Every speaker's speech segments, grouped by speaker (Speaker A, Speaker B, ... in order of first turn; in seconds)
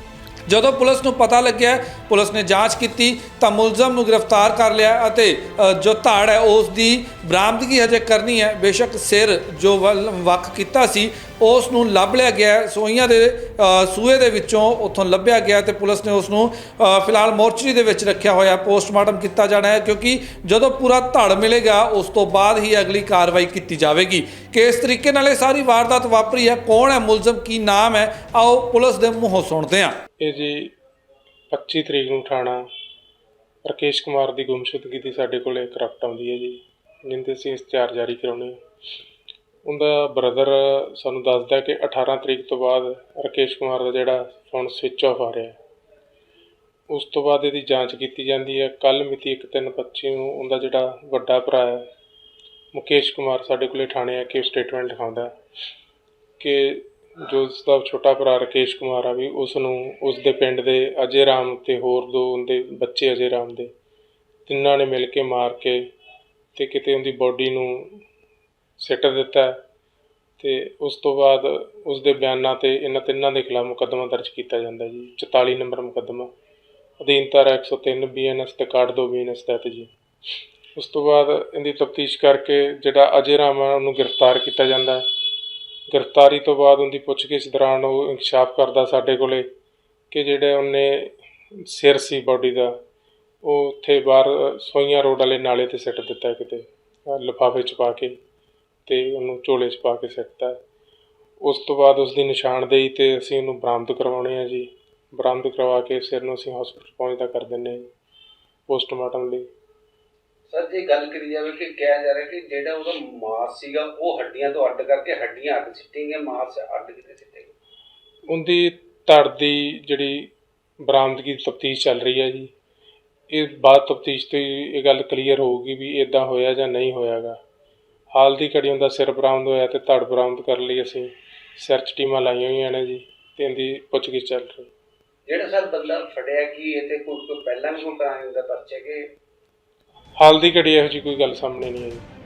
Speaker A: 0.5-29.9
Speaker B: 30.2-30.7, 31.5-32.6, 33.6-38.6, 39.6-45.6, 46.9-51.9, 52.7-55.3, 56.4-63.7, 64.5-65.8, 66.5-68.0, 68.8-69.6, 70.4-76.3, 77.0-79.9, 80.7-85.0, 85.9-89.5, 90.1-92.7, 93.4-98.2, 98.9-100.6, 101.4-107.8, 108.7-109.5, 118.3-120.3, 120.8-122.5, 123.3-127.3, 128.1-134.7, 140.2-142.0
Speaker C: 110.5-117.5, 135.3-139.1